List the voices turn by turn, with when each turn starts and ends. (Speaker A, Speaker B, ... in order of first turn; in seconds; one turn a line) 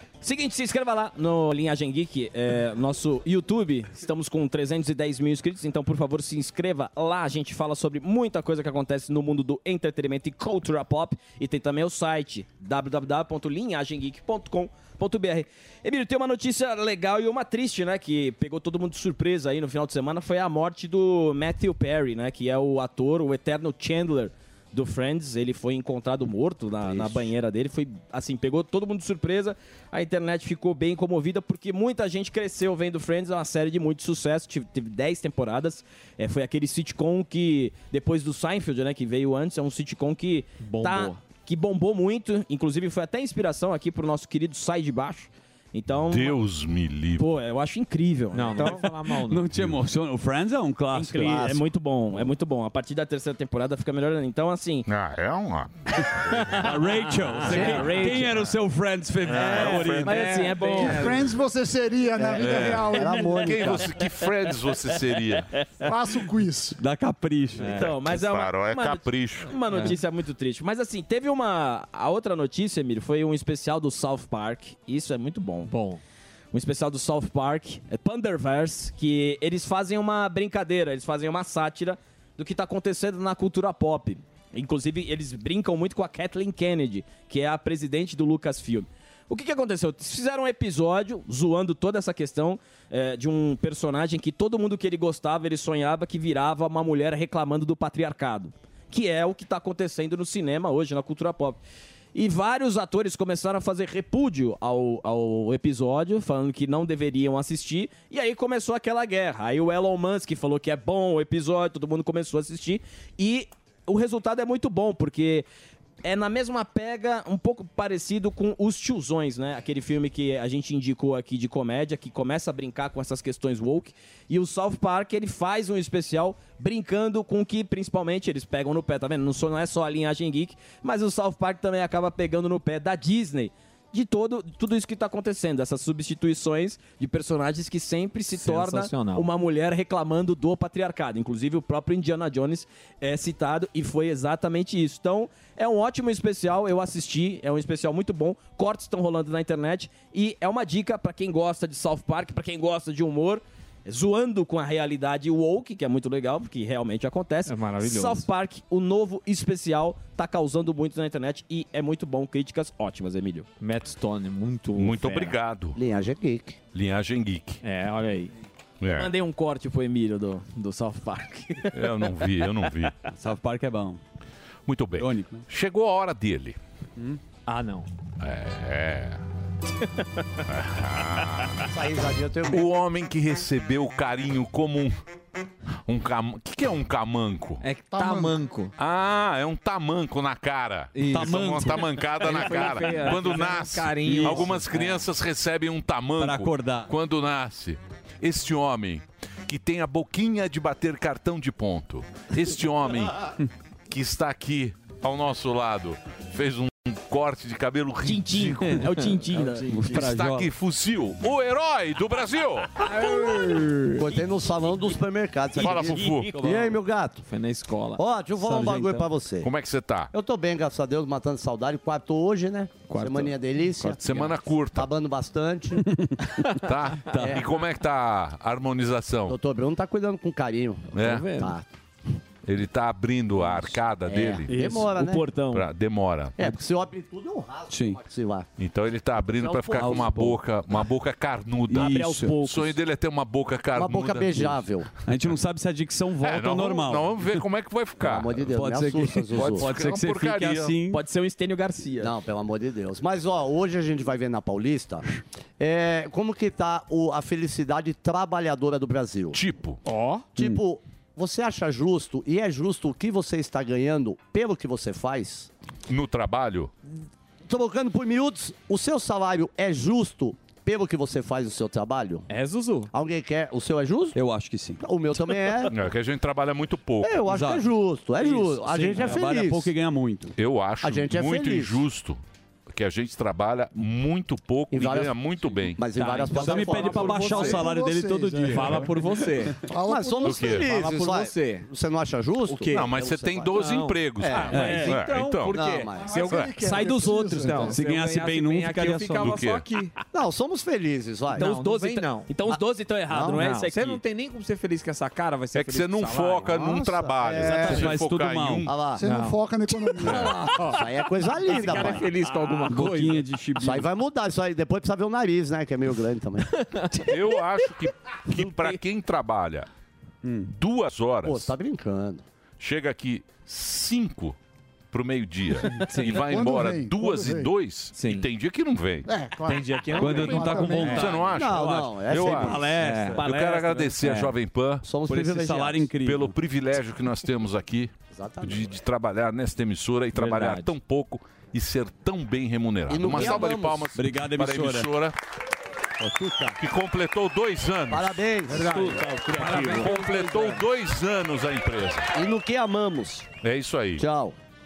Speaker A: 0.2-46.4
Speaker B: 26.9-27.3
Speaker C: 40.6-41.2
Speaker D: 46.1-47.2
Speaker A: 47.2-48.9
Speaker C: 48.3-49.5
Speaker E: 49.2-51.6
Speaker A: 50.9-54.9
Speaker D: 54.9-55.7
Speaker D: 56.3-56.5
Speaker E: 56.5-60.5
Speaker C: 57.4-58.1
Speaker A: 57.4-58.4
Speaker D: 59.3-60.2
Speaker A: 59.4-61.1
Speaker C: 60.0-61.2
Speaker F: 60.8-63.7
Speaker B: 62.2-63.8
Speaker D: 62.4-65.5
Speaker F: 65.8-66.8
Speaker E: 66.8-67.8
Speaker C: 67.6-67.9
Speaker A: 67.7-75.7
Speaker D: 67.8-69.5
Speaker C: 75.7-76.0
Speaker A: 76.5-101.6
Speaker A: 102.1-115.5
Speaker A: 116.0-163.5
Speaker C: 138.3-139.3
Speaker C: 157.4-158.2
Speaker C: 163.6-165.3
Speaker D: 164.8-165.8
Speaker B: 165.8-166.6
Speaker D: 166.7-167.6
Speaker C: 167.6-168.3
Speaker D: 168.8-169.1
Speaker A: 168.9-171.8
Speaker D: 171.7-172.9
Speaker E: 173.2-174.0
Speaker D: 174.7-176.6
Speaker E: 175.0-175.4
Speaker C: 177.5-177.9
Speaker D: 178.2-179.2
Speaker D: 180.5-181.7
Speaker B: 181.7-182.7
Speaker D: 182.5-184.9
Speaker D: 185.8-187.6
Speaker C: 187.6-188.7
Speaker F: 187.9-188.4
Speaker D: 188.8-203.4
Speaker C: 190.9-195.0
Speaker E: 191.1-192.5
Speaker E: 194.0-194.6
Speaker E: 196.2-196.9
Speaker D: 203.9-208.9
Speaker A: 208.0-209.7
Speaker E: 209.3-210.5
Speaker D: 209.9-212.7
Speaker C: 212.8-214.2
Speaker B: 213.9-217.2
Speaker C: 215.6-219.1
Speaker D: 215.6-216.3
Speaker B: 218.0-219.5
Speaker D: 219.4-220.1
Speaker B: 220.1-226.0
Speaker C: 222.9-223.4
Speaker D: 223.8-224.9
Speaker E: 225.8-226.2
Speaker D: 226.6-229.4
Speaker B: 227.1-227.4
Speaker B: 229.3-231.7
Speaker D: 230.9-231.3
Speaker C: 230.9-231.5
Speaker D: 232.4-234.5
Speaker B: 234.1-235.2
Speaker A: 234.5-235.7
Speaker D: 235.5-236.3
Speaker B: 236.4-238.5
Speaker E: 237.7-238.0
Speaker D: 238.6-244.6
Speaker B: 239.3-240.4
Speaker E: 241.7-242.3
Speaker A: 241.7-242.8
Speaker B: 243.7-244.9
Speaker E: 245.0-247.2
Speaker D: 246.2-248.4
Speaker B: 248.0-249.7
Speaker E: 248.4-251.0
Speaker D: 249.3-250.7
Speaker A: 250.9-252.1
Speaker B: 252.0-259.4
Speaker D: 259.3-259.8
Speaker C: 259.9-260.2
Speaker B: 260.4-265.5
Speaker D: 265.9-266.7
Speaker B: 267.5-272.3
Speaker C: 272.3-272.9
Speaker B: 272.9-274.2
Speaker E: 274.1-274.8
Speaker B: 274.8-275.7
Speaker D: 275.7-277.2
Speaker B: 277.0-279.7
Speaker E: 277.3-277.6
Speaker C: 278.2-279.2
Speaker E: 278.6-280.3
Speaker D: 280.4-282.2
Speaker B: 280.8-281.8
Speaker D: 282.7-285.8
Speaker B: 284.7-287.5
Speaker C: 285.9-287.7
Speaker E: 286.3-289.5
Speaker F: 286.8-290.7
Speaker C: 288.5-289.6
Speaker B: 289.8-293.6
Speaker D: 290.2-290.7
Speaker C: 290.6-291.7
Speaker C: 292.4-292.9
Speaker D: 292.7-295.6
Speaker C: 293.5-299.9
Speaker B: 294.2-294.9
Speaker E: 294.5-295.0
Speaker B: 295.5-296.4
Speaker F: 295.9-297.8
Speaker D: 296.2-296.6
Speaker E: 297.5-299.4
Speaker D: 299.2-299.6
Speaker B: 300.1-301.4
Speaker C: 301.3-302.3
Speaker A: 301.3-304.0
Speaker B: 303.1-303.4
Speaker C: 303.4-306.6
Speaker D: 305.5-308.7
Speaker B: 306.5-307.1
Speaker F: 307.1-307.9
Speaker E: 307.5-308.7
Speaker B: 308.7-309.0
Speaker F: 308.9-310.6
Speaker C: 309.0-313.2
Speaker D: 310.0-310.4
Speaker B: 310.6-312.1
Speaker E: 312.7-313.9
Speaker B: 313.6-316.5
Speaker C: 316.5-317.4
Speaker D: 317.0-319.7
Speaker C: 318.3-318.8
Speaker E: 320.2-320.5
Speaker D: 320.5-321.5
Speaker B: 321.2-322.2
Speaker D: 322.6-324.4
Speaker D: 324.9-329.1
Speaker C: 325.7-326.2
Speaker F: 326.0-327.5
Speaker C: 327.9-328.3
Speaker F: 329.0-331.0
Speaker C: 329.4-331.2
Speaker E: 329.9-333.6
Speaker D: 330.1-332.6
Speaker B: 331.1-332.7
Speaker C: 332.7-333.3
Speaker A: 333.2-333.5
Speaker D: 333.2-334.8
Speaker C: 333.8-334.3
Speaker B: 334.8-335.9
Speaker E: 335.1-336.4
Speaker D: 336.0-345.1
Speaker B: 338.1-338.7
Speaker C: 340.1-340.7
Speaker B: 342.9-343.9
Speaker E: 343.1-343.4
Speaker E: 343.9-344.9
Speaker B: 346.0-346.5
Speaker D: 346.6-348.2
Speaker B: 347.9-349.0
Speaker C: 348.5-350.6
Speaker A: 348.8-349.6
Speaker D: 349.3-352.1
Speaker B: 352.1-353.3
Speaker D: 353.4-354.0
Speaker B: 354.0-354.4